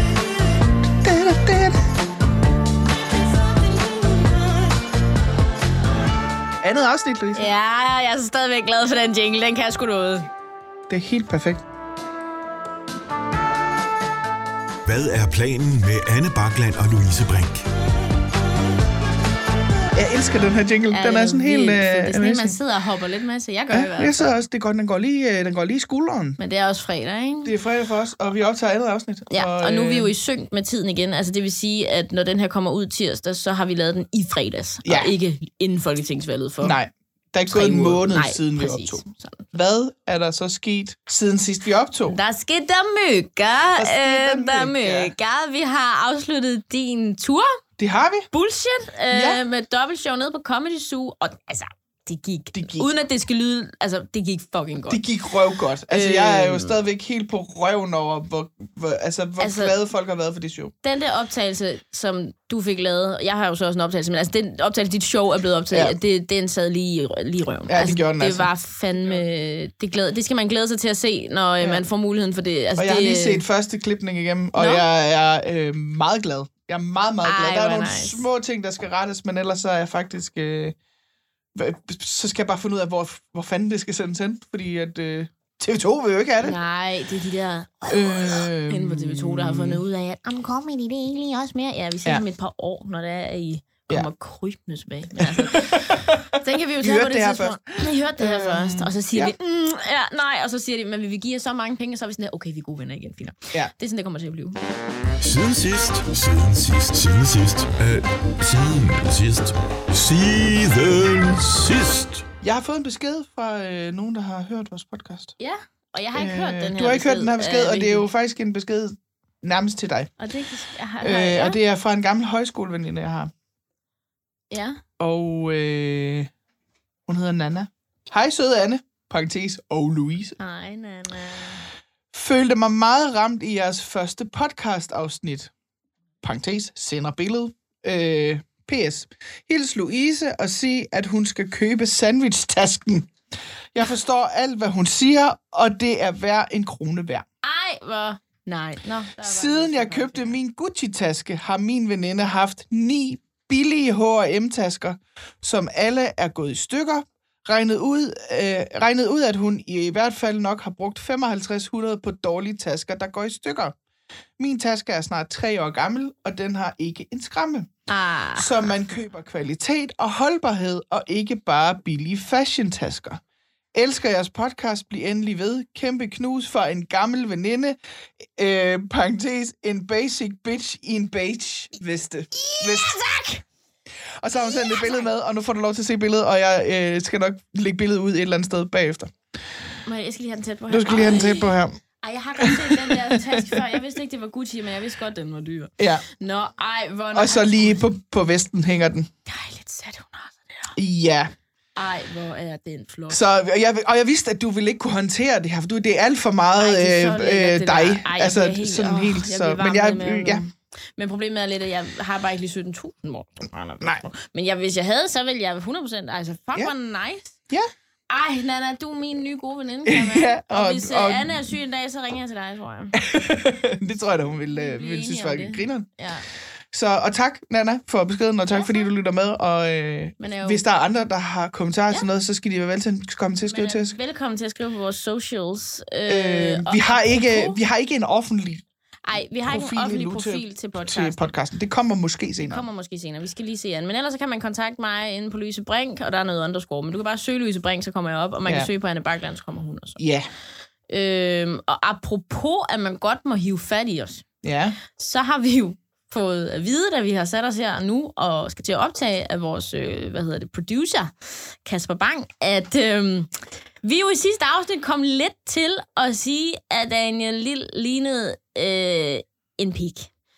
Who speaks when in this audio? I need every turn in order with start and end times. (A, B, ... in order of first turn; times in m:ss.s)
0:01.0-0:01.8 A
0:06.6-0:07.5 A
0:07.3-0:10.3 B
0:10.9-0:11.6 A
0:14.8-0:17.7 C
0:19.9-0:22.6 A
0:20.9-0:24.3 B
0:23.7-0:26.4 A
0:26.4-0:27.5 B
0:27.4-0:30.1 A
0:29.3-0:36.8 B
0:34.8-0:35.1 A
0:36.6-0:42.1 A
0:37.5-0:39.4 B
0:42.1-0:47.6 B
0:43.8-0:45.1 A
0:47.8-0:48.3 A
0:48.3-0:55.0 B
0:49.1-0:49.4 A
0:52.5-0:52.9 A
0:54.9-1:00.7 A
0:55.9-0:56.7 B
0:59.4-0:59.7 B
1:00.8-1:13.4 B
1:07.7-1:08.5 A
1:12.8-1:20.8 A
1:14.6-1:14.8 B
1:17.2-1:18.2 B
1:21.5-1:26.6 A
1:26.4-1:44.6 B
1:27.9-1:29.8 A
1:35.2-1:39.3 A
1:45.2-1:52.2 C
1:52.4-1:55.4 A
1:55.4-1:58.1 B
1:56.2-2:00.1 A
2:00.2-2:01.6 B
2:01.0-2:03.3 A
2:04.5-2:04.8 B
2:05.0-2:06.3 A
2:07.1-2:10.4 A
2:10.4-2:11.7 B
2:12.1-2:15.5 A
2:16.2-2:23.1 A
2:23.7-2:27.2 A
2:27.4-2:30.4 B
2:29.2-2:43.8 A
2:44.4-2:47.7 A
2:47.9-2:48.6 B
2:48.4-2:53.2 A
2:53.7-2:57.8 A
2:58.3-3:03.0 A
3:02.3-3:03.4 B
3:04.2-3:09.1 A
3:04.6-3:05.0 B
3:09.8-3:17.8 B
3:10.7-3:11.8 A
3:12.4-3:13.6 A
3:15.8-3:16.0 A
3:17.1-3:19.1 A
3:19.2-3:20.7 B
3:20.8-3:21.3 A
3:21.8-3:23.2 B
3:23.1-3:30.4 A
3:26.6-3:37.4 B
3:38.1-3:43.0 B
3:39.8-3:41.4 A
3:43.0-3:45.9 A
3:44.5-3:46.3 B
3:46.7-3:54.0 A
3:48.5-3:48.9 B
3:50.2-3:50.6 B
3:53.5-3:57.6 B
3:56.1-3:58.6 A
3:59.0-4:01.3 B
3:59.5-4:02.6 A
4:02.4-4:10.0 B
4:10.0-4:10.3 A
4:10.9-4:14.2 B
4:14.4-4:14.8 A
4:15.0-4:30.1 B